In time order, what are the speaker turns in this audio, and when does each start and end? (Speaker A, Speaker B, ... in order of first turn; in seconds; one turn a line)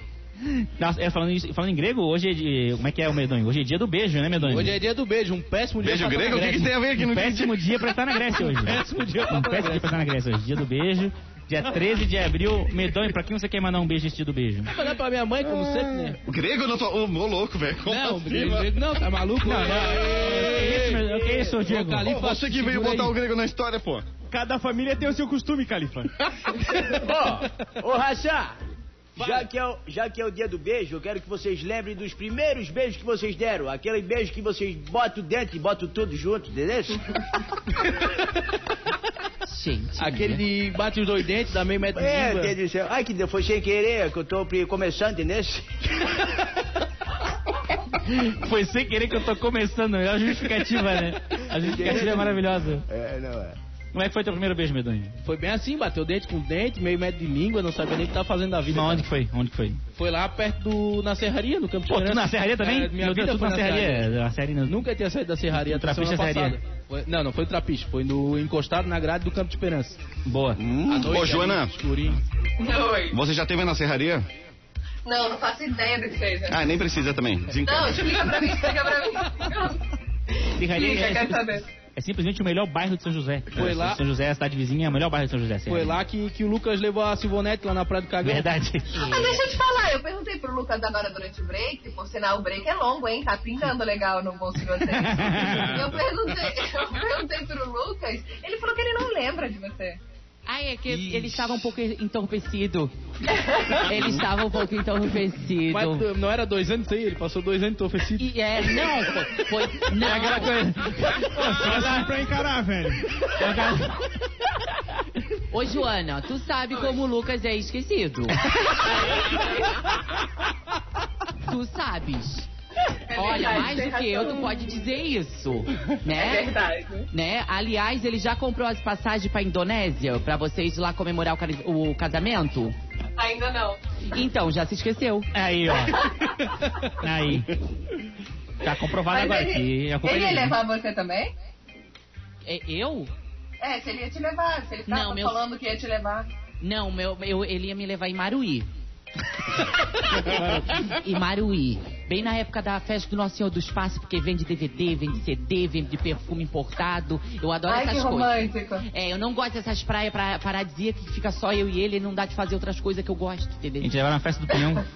Speaker A: 0.4-4.8
Speaker B: 4.4-6.7
Speaker C: 5.8-7.7
Speaker A: 7.0-14.7
Speaker B: 8.4-10.0
Speaker B: 14.7-16.2
Speaker C: 16.2-18.8
Speaker B: 17.9-23.2
Speaker A: 19.4-22.1
Speaker C: 22.0-24.1
Speaker D: 24.3-26.1
Speaker E: 26.9-28.6
Speaker B: 29.2-29.5
Speaker E: 29.2-37.0
Speaker F: 39.5-40.4
Speaker B: 40.0-42.5
Speaker E: 41.9-46.1
Speaker A: 47.9-52.9
Speaker E: 51.6-52.4
Speaker E: 52.9-53.6
Speaker A: 53.9-55.2
Speaker B: 55.2-59.1
Speaker A: 58.7-59.8
Speaker B: 60.0-64.2
Speaker A: 61.9-64.9
Speaker B: 64.7-70.0
Speaker A: 65.5-66.6
Speaker A: 70.3-70.6
Speaker C: 70.6-71.7
Speaker B: 70.9-72.2
Speaker G: 72.6-73.2
Speaker C: 73.1-74.2
Speaker G: 75.1-76.6
Speaker C: 76.5-78.3
Speaker G: 77.6-79.8
Speaker G: 80.4-81.7
Speaker A: 80.6-86.0
Speaker B: 83.5-84.0
Speaker B: 85.7-88.5
Speaker A: 88.2-89.0
Speaker F: 88.9-89.5
Speaker G: 89.0-100.0
Speaker A: 94.8-95.9
Speaker F: 100.5-102.9
Speaker B: 100.9-101.4
Speaker F: 103.7-106.1
Speaker B: 105.7-108.3
Speaker F: 108.2-110.6
Speaker A: 109.9-112.1
Speaker D: 111.3-113.3
Speaker A: 113.3-114.0
Speaker F: 115.5-118.4
Speaker G: 118.6-119.8
Speaker F: 121.4-122.5
Speaker G: 123.1-124.7
Speaker F: 123.1-126.5
Speaker G: 126.1-127.1
Speaker F: 127.1-132.8
Speaker G: 133.2-133.8
Speaker F: 134.1-135.3
Speaker A: 135.3-136.3
Speaker G: 135.9-136.1
Speaker A: 136.9-137.6
Speaker A: 138.6-140.6
Speaker G: 139.1-141.3
Speaker F: 142.4-143.1
Speaker G: 143.6-146.3
Speaker F: 144.9-145.4
Speaker F: 146.6-148.7
Speaker F: 150.2-163.9
Speaker A: 150.3-150.7
Speaker G: 157.7-158.8
Speaker A: 163.8-164.8